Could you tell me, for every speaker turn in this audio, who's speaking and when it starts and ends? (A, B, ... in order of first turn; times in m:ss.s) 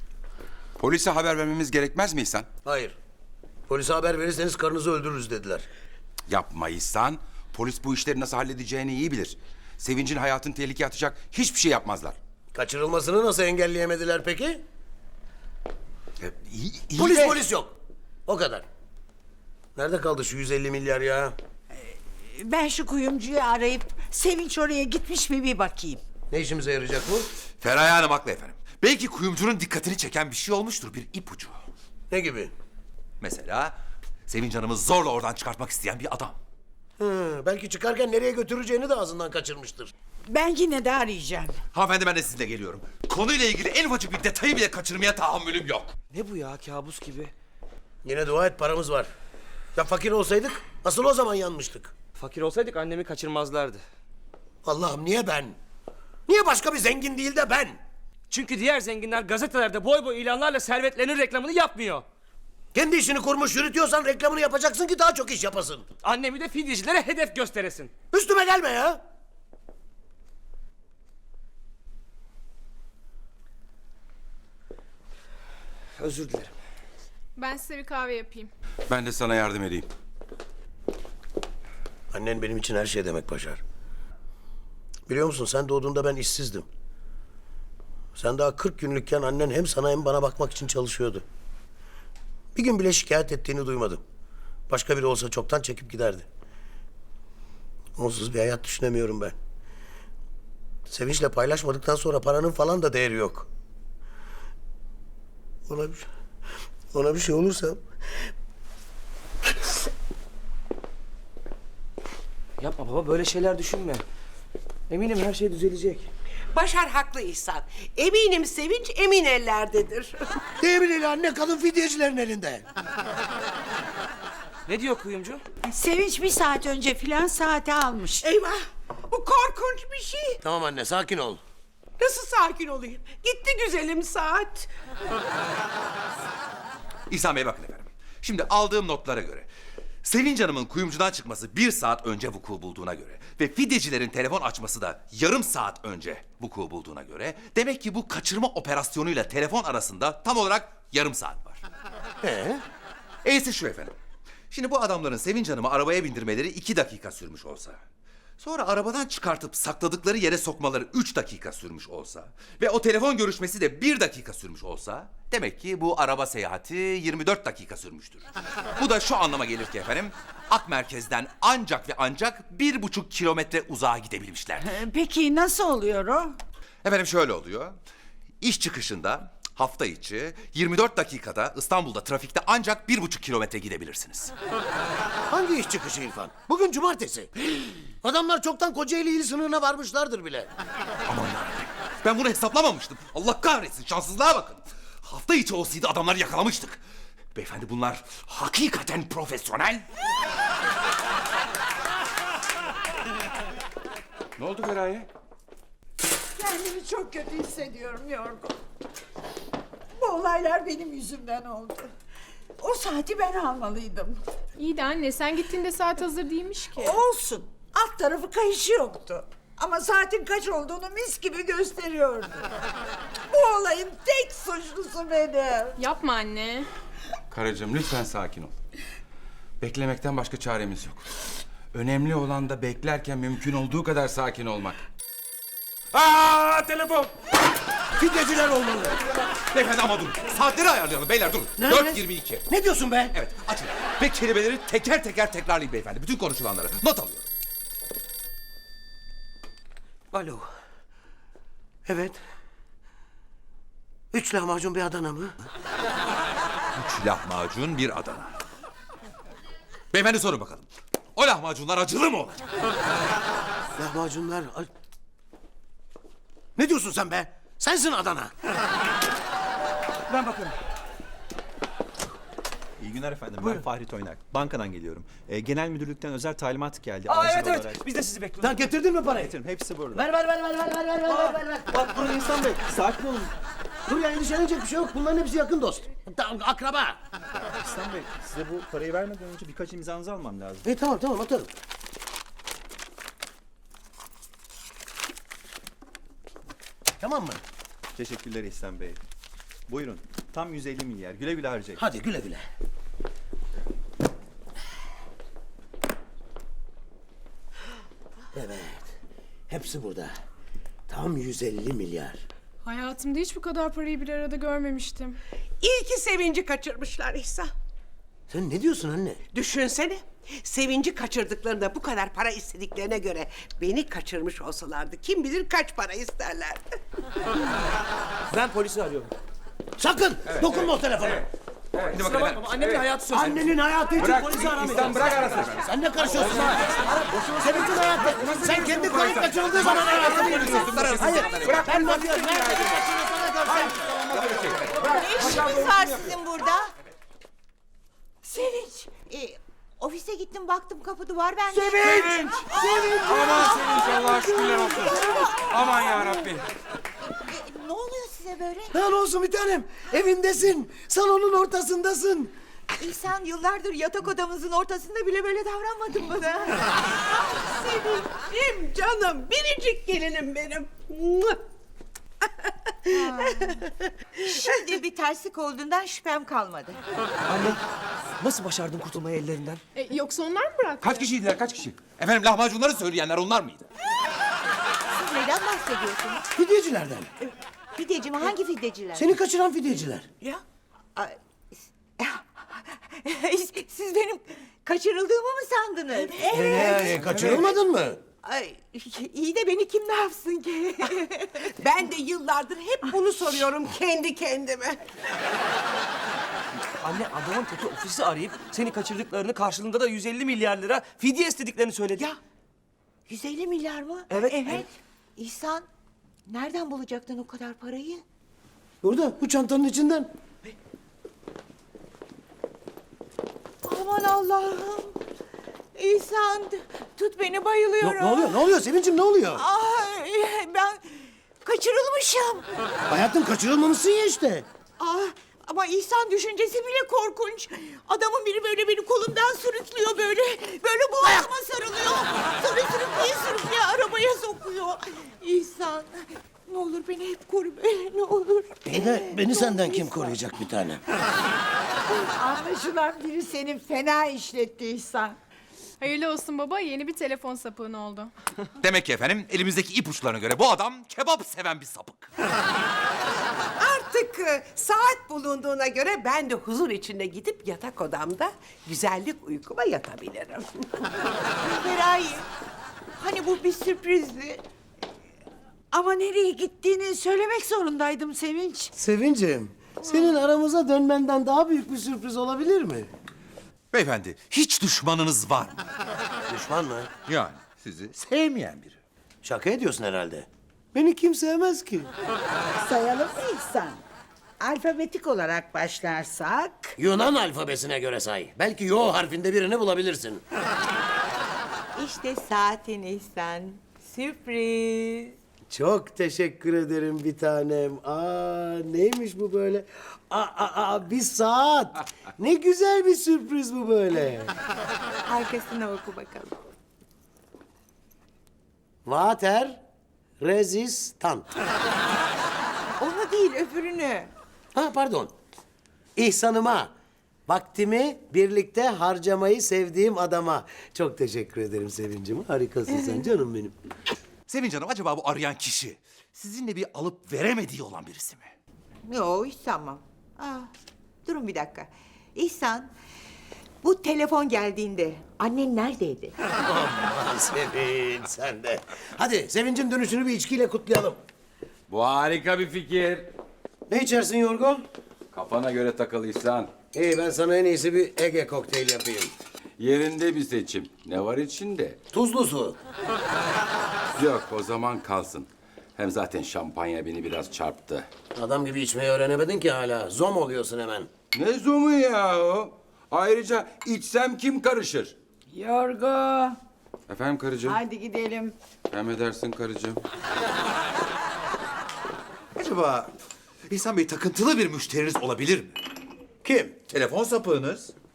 0:00.8-0:02.5 A
0:02.6-0:03.0 B
0:03.7-0:05.7 B
0:06.3-0:12.2 A
0:12.5-0:14.6 B
0:16.2-0:17.4 C
0:17.0-0:18.6 B
0:19.8-0:21.4 B
0:21.8-0:26.0 D
0:26.3-0:27.3 B
0:27.6-0:31.6 C
0:32.1-0:32.5 B
0:33.2-0:33.8 C
0:34.3-0:36.4 C
0:37.0-0:39.9 B
0:40.3-0:41.6 D
0:41.7-0:46.0 C
0:46.1-0:47.3 E
0:48.0-0:49.1 B
0:49.7-0:51.9 B
0:52.1-0:53.8 E
0:54.6-0:55.6 B
0:56.3-0:57.8 B
0:58.3-1:02.0 E
1:02.7-1:05.9 B
1:06.0-1:07.9 E
1:08.1-1:09.0 B
1:16.0-1:16.5 E
1:17.4-1:18.5 F
1:18.9-1:19.9 A
1:22.1-1:23.6 B
1:25.1-1:26.7 B
1:28.1-1:31.2 B
1:32.5-1:34.0 B
1:34.7-1:36.3 B
1:38.0-1:39.4 B
1:40.9-1:43.5 B
1:45.7-1:46.1 B
1:46.9-1:47.8 B
1:52.6-1:54.0 E
1:54.9-1:56.1 E
1:56.5-2:00.3 G
2:00.6-2:02.6 B
2:04.6-2:05.4 E
2:05.6-2:08.2 D
2:08.2-2:08.6 G
2:09.1-2:10.3 G
2:10.4-2:11.4 B
2:12.0-2:14.7 G
2:17.1-2:19.5 C
2:20.0-2:31.6 C
2:32.2-2:32.6 B
2:33.2-2:33.9 C
2:34.5-2:37.8 C
2:38.4-2:48.2 C
2:48.8-2:54.8 C
2:54.6-2:56.4 D
2:56.8-2:57.8 C
2:58.4-3:04.3 C
3:05.3-3:07.3 B
3:08.0-3:10.5 B
3:11.1-3:16.8 C
3:17.3-3:19.8 C
3:24.4-3:25.1 A
3:26.4-3:28.5 D
3:30.0-3:31.9 D
3:32.6-3:34.2 D
3:34.6-3:37.0 F
3:36.7-3:42.4 D
3:43.3-3:45.8 D
3:45.8-3:46.7 F
3:47.3-3:48.5 A
3:49.6-3:51.1 A
3:51.7-3:54.8 A
3:55.9-3:57.1 A
3:58.0-3:59.0 B
3:59.5-4:02.4 C
4:01.6-4:03.1 B
4:03.1-4:07.3 C
4:10.1-4:10.4 E
4:11.8-4:12.2 B
4:14.1-4:15.4 B
4:16.8-4:18.4 C
4:19.9-4:22.4 C
4:23.8-4:24.7 B
4:26.6-4:28.3 B
4:30.1-4:30.5 E
4:32.8-4:37.8 H
4:37.0-4:38.7 E
4:38.4-4:39.3 B
4:39.1-4:40.0 H
4:39.9-4:41.7 B
4:41.7-4:43.3 H
4:43.9-4:47.0 B
4:47.6-4:50.6 H
4:50.6-4:51.5 B
4:57.0-4:57.4 B
4:58.0-4:59.0 H
4:59.7-5:01.8 H
5:01.8-5:02.4 B
5:08.3-5:08.9 B
5:09.5-5:10.2 B
5:10.9-5:12.2 B
5:12.6-5:15.2 F
5:15.6-5:17.5 G
5:18.3-5:19.2 B
5:19.3-5:26.6 G
5:28.3-5:29.1 E
5:29.8-5:31.3 B
5:31.7-5:32.9 A
5:31.9-5:33.5 E
5:31.9-5:32.6 C
5:33.1-5:44.2 B
5:34.0-5:42.7 A
5:36.2-5:37.0 E
5:39.0-5:41.8 C
5:43.6-5:44.8 C
5:44.7-5:46.7 I
5:44.8-5:46.1 A
5:48.2-5:48.8 D
5:48.8-5:56.3 I
5:51.5-5:54.1 B
5:51.9-5:52.2 A
5:53.0-5:56.4 A
5:57.2-5:58.7 I
5:58.7-6:02.3 B
6:02.8-6:06.7 I
6:07.0-6:11.4 G
6:12.4-6:13.6 G
6:12.9-6:13.6 I
6:14.2-6:16.8 I
6:14.2-6:14.7 G
6:17.3-6:17.6 E
6:18.2-6:19.6 E
6:19.7-6:21.1 F
6:20.8-6:23.7 C
6:24.9-6:26.3 I
6:26.4-6:27.1 B
6:27.2-6:29.1 I
6:29.0-6:30.1 B
6:31.0-6:37.3 I
6:36.0-6:36.9 G
6:36.3-6:38.0 B
6:38.2-6:41.5 I
6:41.5-6:44.8 G
6:46.8-6:52.1 E
6:53.1-6:55.7 I
6:54.1-6:54.6 E
6:56.3-6:58.0 I
6:58.8-7:00.1 B
7:03.6-7:05.0 I
7:05.7-7:08.3 I
7:07.8-7:09.4 B
7:09.4-7:12.4 I
7:12.9-7:14.5 B
7:14.8-7:30.0 I
7:28.6-7:30.8 B
7:31.9-7:35.2 D
7:35.8-7:38.1 F
7:38.6-7:42.1 C
7:43.6-7:50.5 G
7:51.4-7:52.3 I
7:53.0-7:54.4 I
7:55.7-7:58.7 D
7:58.8-8:02.9 B
8:03.7-8:05.6 C
8:06.3-8:06.9 B
8:07.0-8:08.8 C
8:09.2-8:11.9 B
8:12.6-8:13.8 D
8:14.4-8:16.7 D
8:16.8-8:20.2 B
8:21.8-8:25.2 I
8:25.5-8:34.3 B
8:35.0-8:36.5 I
8:38.8-8:39.6 B
8:40.2-8:41.2 B
8:42.8-8:44.1 I
8:44.5-8:45.1 B
8:46.0-8:46.7 B
8:47.3-8:53.5 B
8:54.3-8:58.3 C
8:58.8-9:00.5 I
9:01.0-9:02.7 I
9:03.6-9:06.2 I
9:06.4-9:11.0 B
9:11.7-9:13.1 A
9:13.7-9:14.6 B
9:15.1-9:16.5 A
9:16.7-9:19.1 B
9:19.6-9:21.8 A
9:21.9-9:22.6 B
9:24.0-9:27.9 A
9:28.1-9:30.9 B
9:31.1-9:34.9 A
9:35.3-9:36.4 D
9:36.9-9:37.6 A
9:37.4-9:38.3 D
9:38.7-9:39.8 A
9:42.4-9:42.9 C
9:43.5-9:45.6 C
9:46.2-9:46.6 B
9:46.7-9:47.7 C